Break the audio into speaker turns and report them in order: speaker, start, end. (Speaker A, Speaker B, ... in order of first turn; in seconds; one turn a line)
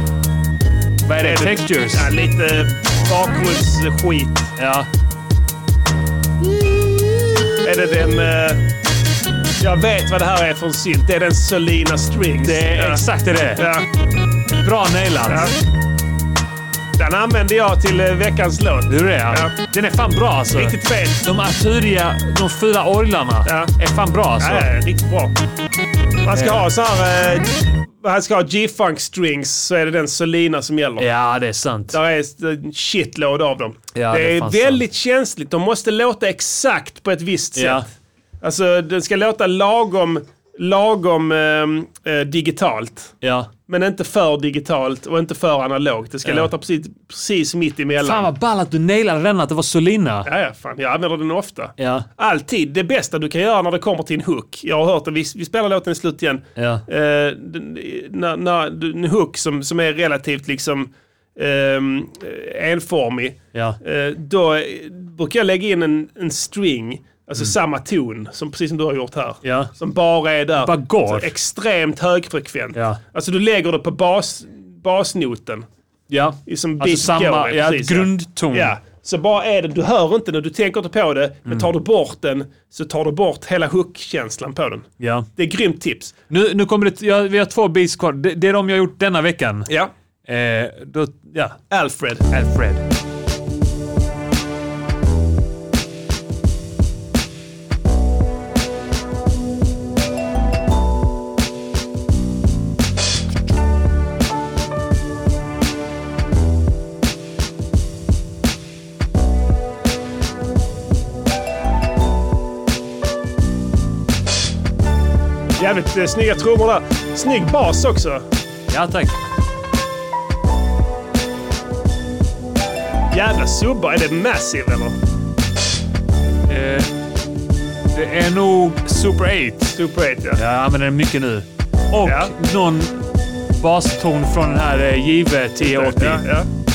Speaker A: 1.0-2.1
Speaker B: 1.2-4.5
Speaker A: 4.6-4.9
Speaker A: 6.6-7.5
Speaker B: 7.6-8.6
Speaker B: 9.6-13.0
Speaker A: 12.4-13.7
Speaker B: 13.5-13.8
Speaker A: 14.6-15.5
Speaker B: 15.3-15.5
Speaker B: 17.0-19.5
Speaker A: 18.9-24.7
Speaker B: 20.5-21.2
Speaker B: 23.4-23.7
Speaker B: 24.4-25.3
Speaker B: 26.2-31.1
Speaker A: 26.3-26.6
Speaker A: 31.0-32.0
Speaker B: 31.9-37.9
Speaker A: 33.9-34.8
Speaker A: 37.5-37.9
Speaker B: 38.4-43.1
Speaker A: 43.2-43.5
Speaker B: 43.7-48.3
Speaker A: 46.2-46.5
Speaker A: 48.0-50.3
Speaker B: 50.2-75.7
Speaker A: 51.8-52.0
Speaker A: 56.5-56.8
Speaker A: 69.4-69.7
Speaker A: 70.5-71.3
Speaker A: 72.7-73.0
Speaker A: 76.1-78.7
Speaker B: 76.5-86.1
Speaker A: 81.5-81.7
Speaker A: 85.0-85.3
Speaker A: 86.3-89.7
Speaker A: 90.2-91.6
Speaker B: 91.7-92.2
Speaker A: 92.3-92.8
Speaker B: 115.6-118.2
Speaker A: 118.7-119.2
Speaker B: 123.1-125.0
Speaker A: 126.5-126.9
Speaker A: 127.9-129.8
Speaker B: 129.7-130.4
Speaker A: 130.3-133.0
Speaker B: 132.0-132.3
Speaker A: 133.6-136.2
Speaker B: 135.6-136.5